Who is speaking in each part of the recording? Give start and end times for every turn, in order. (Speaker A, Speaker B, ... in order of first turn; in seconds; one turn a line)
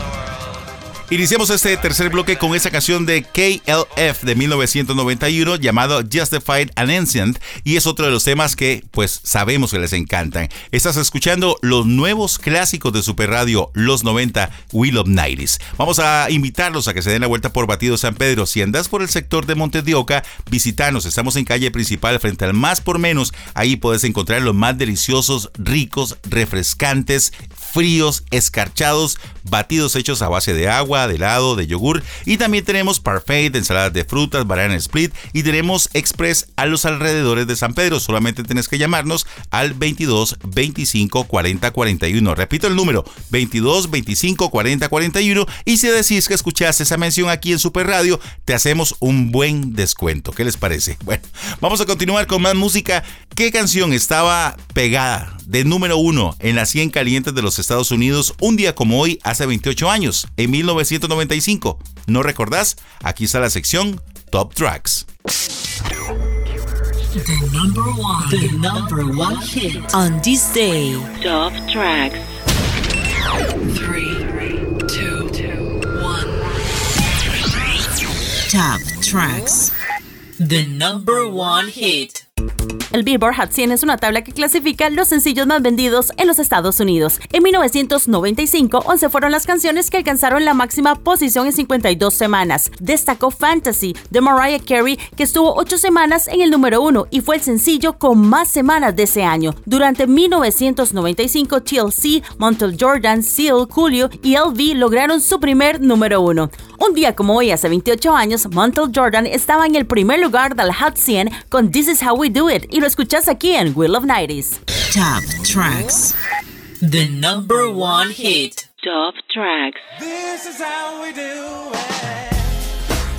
Speaker A: 1.1-65.0
Speaker B: 67.2-71.1
Speaker C: 71.2-72.2
Speaker B: 78.5-79.7
Speaker B: 80.4-82.2
Speaker D: 82.9-114.6
Speaker B: 114.9-116.2
Speaker B: 116.8-118.6
Speaker C: 118.8-119.9
Speaker E: 120.0-122.6